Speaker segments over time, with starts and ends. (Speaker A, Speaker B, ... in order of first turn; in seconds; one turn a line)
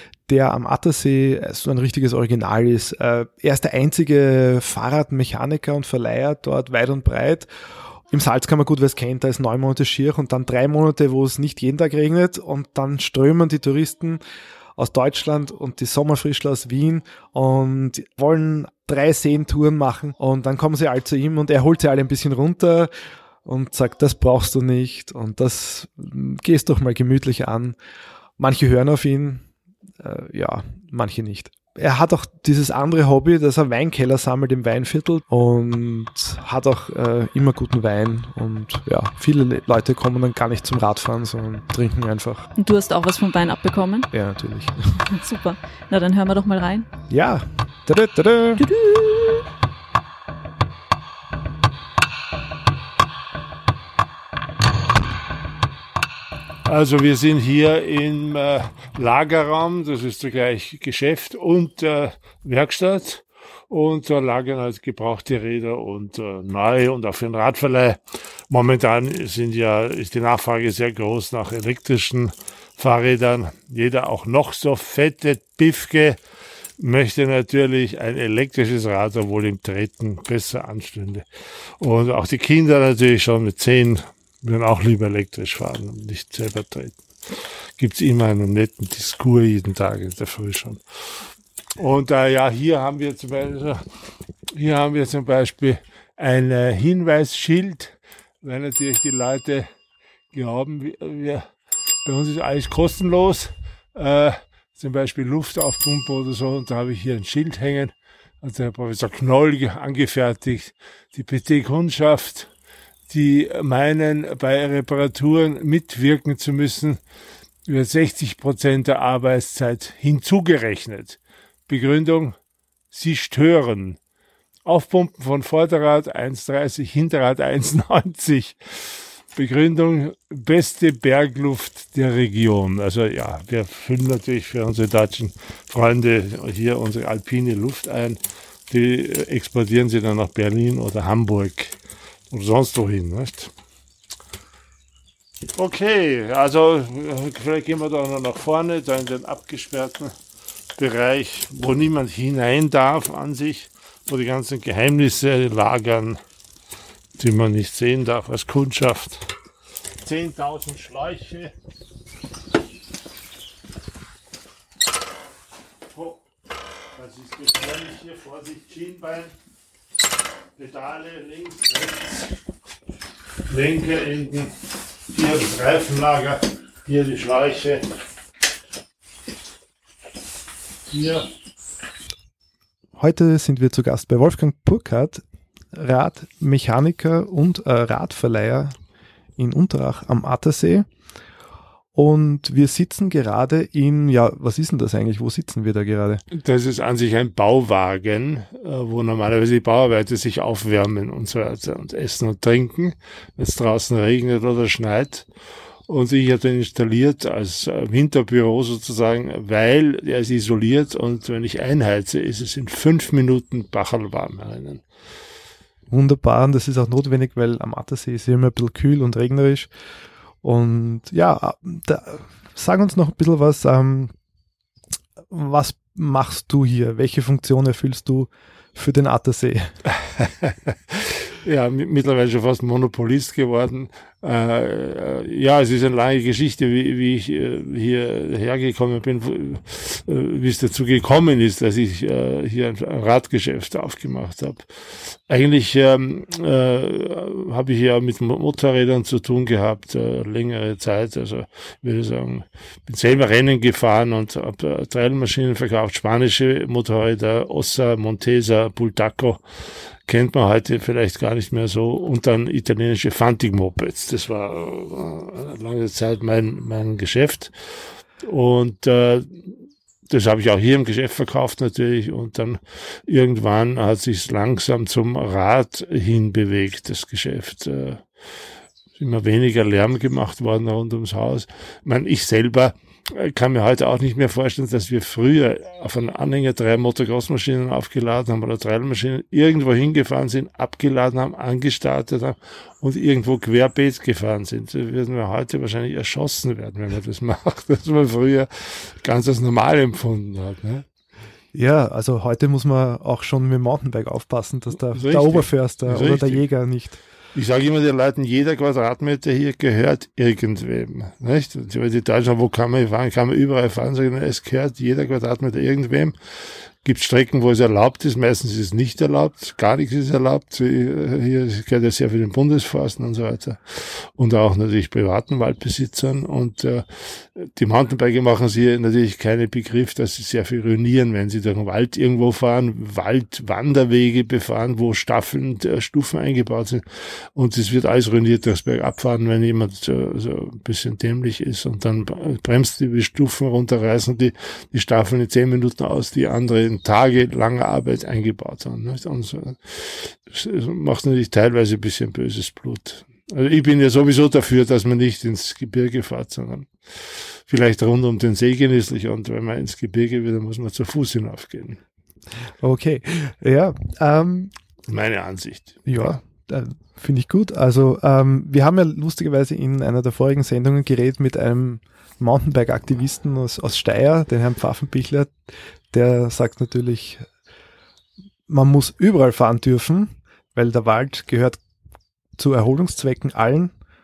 Speaker A: 0.3-7.5
Speaker A: 8.1-14.2
Speaker A: 14.8-22.9
Speaker A: 23.4-27.8
Speaker A: 28.4-29.4
Speaker A: 30.0-42.5
Speaker B: 42.6-44.1
Speaker A: 44.1-45.0
Speaker B: 45.1-46.9
Speaker A: 47.1-48.6
Speaker B: 48.6-49.4
Speaker C: 56.6-76.2
Speaker C: 76.8-81.3
Speaker C: 81.8-93.8
Speaker C: 94.5-99.7
Speaker C: 100.3-101.5
Speaker C: 102.0-112.5
Speaker C: 113.1-117.0
Speaker C: 117.7-122.3
Speaker C: 122.9-124.0
Speaker C: 124.6-141.8
Speaker C: 142.3-143.5
Speaker C: 145.5-150.1
Speaker C: 150.8-156.2
Speaker C: 157.2-159.3
Speaker C: 160.0-161.5
Speaker C: 165.9-166.2
Speaker C: 166.9-169.3
Speaker C: 170.6-172.3
Speaker C: 173.5-174.5
Speaker C: 175.1-177.9
Speaker C: 180.9-181.3
Speaker A: 182.9-188.7
Speaker A: 189.4-190.9
Speaker A: 191.9-196.2
Speaker C: 196.3-205.3
Speaker C: 205.9-214.8
Speaker A: 215.9-219.7
Speaker A: 220.4-224.1
Speaker A: 225.3-229.8
Speaker C: 230.0-259.4
Speaker C: 260.1-267.5
Speaker C: 268.2-269.5
Speaker C: 270.1-278.0
Speaker C: 278.9-300.8
Speaker A: 301.5-307.0
Speaker C: 304.9-306.4
Speaker C: 307.3-316.1
Speaker C: 316.8-336.8
Speaker C: 337.3-361.8
Speaker A: 362.6-364.5
Speaker C: 364.9-366.2
Speaker A: 365.9-375.4
Speaker A: 375.9-377.2
Speaker A: 378.5-381.6
Speaker A: 382.4-383.7